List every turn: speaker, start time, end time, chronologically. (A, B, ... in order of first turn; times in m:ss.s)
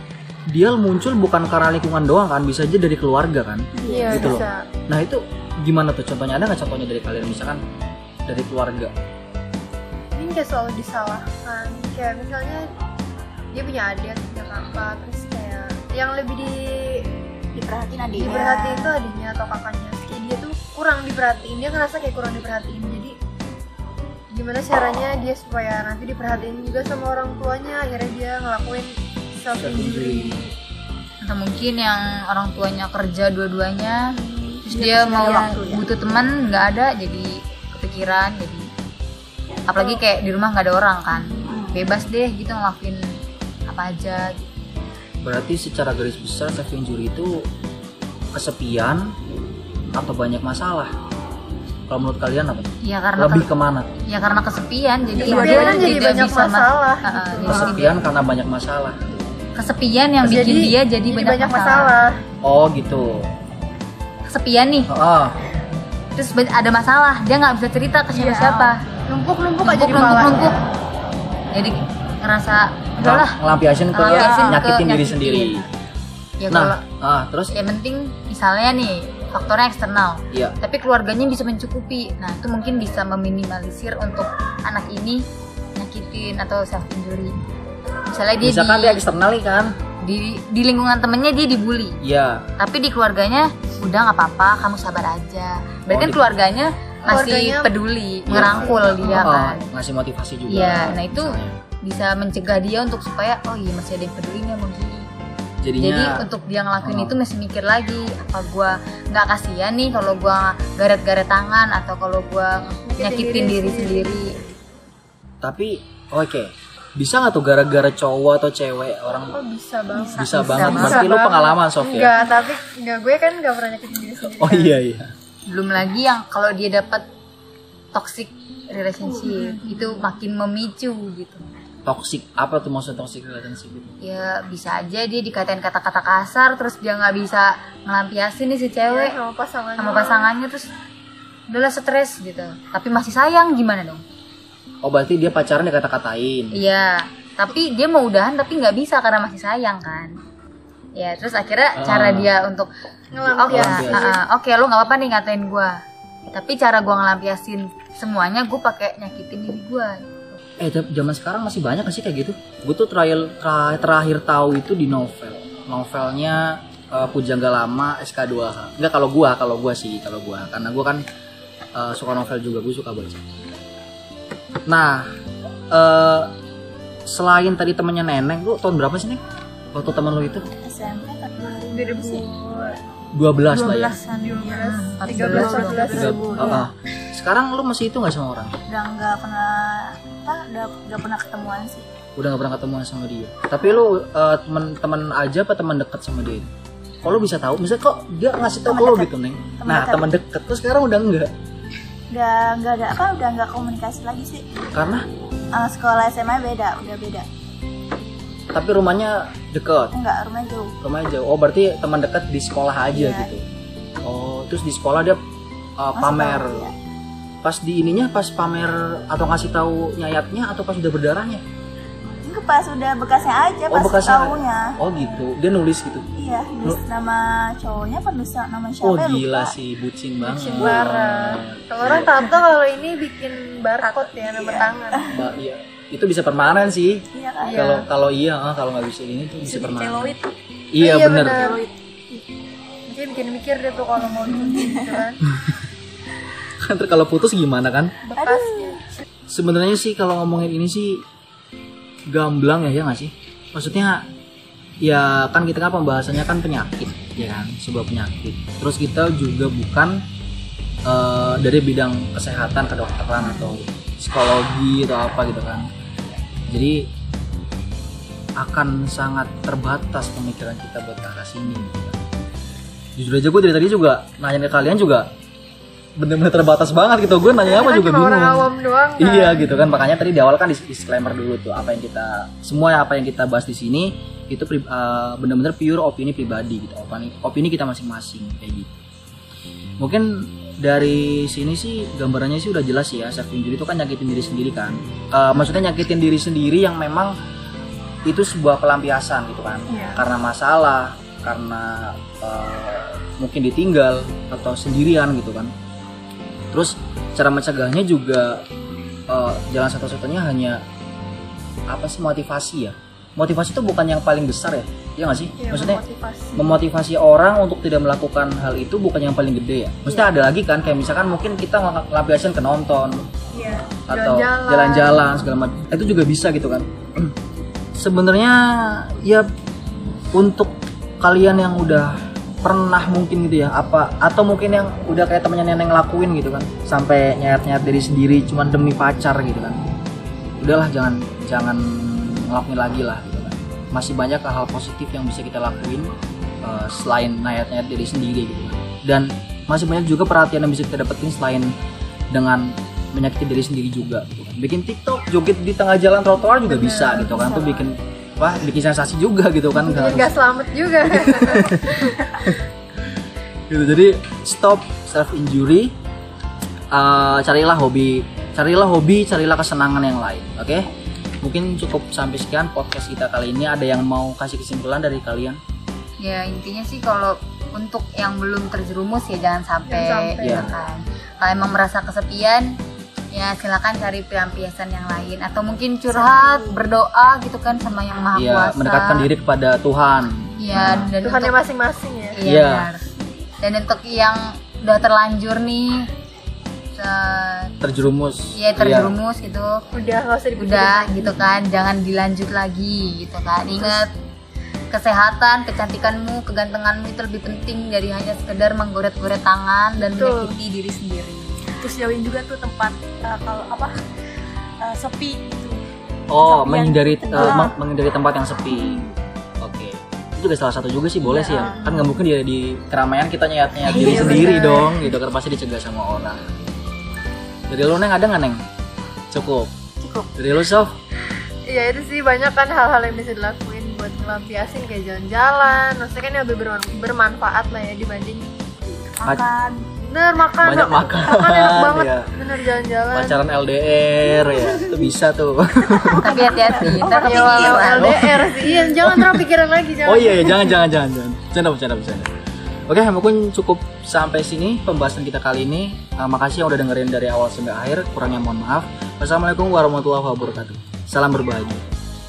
0:00.5-0:07.6 A
0:03.8-0:04.4 B
0:03.9-0:04.7 C
0:08.3-0:08.9 A
0:10.1-0:12.7 C
0:13.5-0:17.1 C
0:17.5-0:19.0 B
0:18.2-0:23.2 C
0:24.3-0:30.5 C
0:29.5-0:30.5 A
0:31.2-0:34.0 D
0:34.7-0:38.7 D
0:34.7-0:35.8 B
0:39.7-0:43.0 D
0:41.3-0:41.8 B
0:43.7-0:44.5 D
0:45.2-0:47.4 A
0:48.3-0:49.2 A
0:50.0-0:50.9 A
0:51.9-0:54.0 A
0:52.8-0:53.5 D
0:54.1-0:58.0 D
0:55.2-0:56.1 E
0:55.2-0:57.8 C
0:57.5-0:59.2 A
0:59.6-1:02.0 D
1:00.2-1:02.2 C
1:02.4-1:03.3 A
1:04.3-1:04.9 D
1:04.9-1:05.4 A
1:06.2-1:08.8 D
1:08.1-1:08.8 E
1:09.1-1:10.7 C
1:09.6-1:10.6 D
1:11.5-1:13.4 D
1:13.0-1:15.6 A
1:13.9-1:15.7 D
1:14.1-1:14.6 E
1:16.4-1:16.8 D
1:16.5-1:17.5 A
1:17.5-1:25.2 D
1:25.8-1:27.4 D
1:28.1-1:29.1 D
1:28.4-1:29.7 A
1:30.0-1:32.0 D
1:32.0-1:32.5 A
1:32.6-1:39.7 D
1:35.9-1:36.4 A
1:37.1-1:37.7 C
1:38.3-1:41.6 A
1:38.4-1:39.3 C
1:40.5-1:45.1 D
1:45.6-1:46.3 A
1:45.8-1:54.3 D
1:46.8-1:47.2 A
1:52.9-1:54.2 C
1:55.4-1:59.4 A
1:59.3-2:04.8 C
1:59.9-2:01.1 E
2:00.2-2:02.1 A
2:04.4-2:05.1 A
2:05.5-2:07.0 D
2:07.9-2:11.4 D
2:09.1-2:09.8 C
2:11.8-2:13.9 A
2:14.0-2:19.2 D
2:18.9-2:20.3 C
2:19.8-2:20.7 D
2:21.5-2:24.0 D
2:24.8-2:26.6 A
2:26.6-2:30.1 D
2:31.0-2:32.7 D
2:31.8-2:32.3 A
2:33.1-2:34.2 C
2:33.2-2:35.8 D
2:33.5-2:34.1 A
2:36.3-2:40.4 D
2:40.6-2:51.0 A
2:51.8-2:53.2 A
2:54.7-2:55.1 A
2:55.7-2:56.3 A
2:57.1-2:59.2 A
2:59.7-3:00.5 A
3:00.6-3:02.2 B
3:01.7-3:02.8 C
3:03.1-3:04.0 A
3:03.5-3:06.3 E
3:04.1-3:06.6 C
3:04.6-3:06.0 D
3:05.3-3:08.5 A
3:06.0-3:06.6 B
3:08.7-3:11.9 B
3:12.2-3:16.5 A
3:17.0-3:21.3 A
3:18.7-3:20.1 B
3:22.1-3:24.4 B
3:24.7-3:25.0 A
3:25.6-3:27.3 B
3:28.5-3:30.0 A
3:29.9-3:30.8 B
3:30.8-3:33.4 A
3:32.9-3:33.3 B
3:34.0-3:35.2 A
3:35.8-3:36.7 A
3:36.0-3:36.8 B
3:37.4-3:41.4 A
3:42.2-3:44.8 B
3:43.7-3:46.1 A
3:46.2-3:49.6 B
3:48.8-3:52.2 A
3:50.2-3:55.1 C
3:54.2-3:55.0 B
3:55.1-4:00.2 A
3:57.1-3:57.7 B
3:57.4-3:57.8 C
3:59.4-4:00.3 E
4:00.7-4:01.5 A
4:00.8-4:01.6 C
4:01.1-4:01.7 E
4:02.9-4:05.2 C
4:04.4-4:04.8 B
4:06.6-4:08.0 A
4:08.0-4:08.8 C
4:08.2-4:08.8 B
4:09.3-4:11.0 A
4:12.1-4:14.1 A
4:14.8-4:20.0 A
4:20.9-4:25.7 A
4:26.5-4:26.9 A
4:28.4-4:32.0 A
4:33.0-4:35.1 A
4:36.0-4:48.8 A
4:37.4-4:39.5 C
4:49.8-4:57.2 A
4:58.1-5:05.5 A
4:59.7-5:00.0 C
5:06.5-5:08.4 A
5:09.1-5:10.6 A
5:11.7-5:15.8 A
5:15.4-5:16.5 C
5:16.4-5:23.0 A
5:19.9-5:20.1 B
5:23.3-5:25.1 C
5:23.9-5:27.2 A
5:27.8-5:29.3 A
5:30.1-5:39.6 A
5:40.4-5:45.9 A
5:46.4-5:51.5 A
5:52.1-6:00.1 A
5:56.3-5:57.6 C
5:59.6-6:01.9 C
6:00.8-6:02.4 A
6:03.5-6:05.7 A
6:06.7-6:10.7 A
6:11.2-6:15.4 A
6:16.0-6:22.5 D
6:19.7-6:20.5 C
6:20.2-6:20.5 A
6:23.1-6:29.1 D
6:25.9-6:26.6 B
6:28.2-6:30.9 A
6:30.4-6:31.4 D
6:31.0-6:32.2 C
6:32.1-6:32.9 D
6:32.2-6:32.7 A
6:33.4-6:35.9 D
6:36.8-6:37.6 D
6:37.6-6:38.9 A
6:38.4-6:39.6 D
6:39.7-6:41.2 C
6:40.4-6:43.9 D
6:44.7-6:51.4 D
6:49.8-6:50.4 C
6:51.6-6:53.8 E
6:54.6-6:55.6 E
6:56.1-6:58.8 A
6:56.1-6:57.5 E
6:59.4-7:06.2 A
7:01.1-7:01.5 E
7:01.4-7:01.9 B
7:03.7-7:04.7 B
7:03.8-7:04.3 E
7:07.5-7:08.4 A
7:09.1-7:09.5 A
7:09.8-7:10.1 B
7:10.2-7:10.7 A
7:11.5-7:18.8 C
7:19.0-7:19.7 E
7:19.8-7:23.2 C
7:20.4-7:22.1 A
7:22.9-7:26.0 A
7:25.7-7:27.9 B
7:26.0-7:27.9 D
7:27.0-7:30.6 C
7:27.7-7:29.2 A
7:29.8-7:32.1 A
7:32.7-7:41.7 A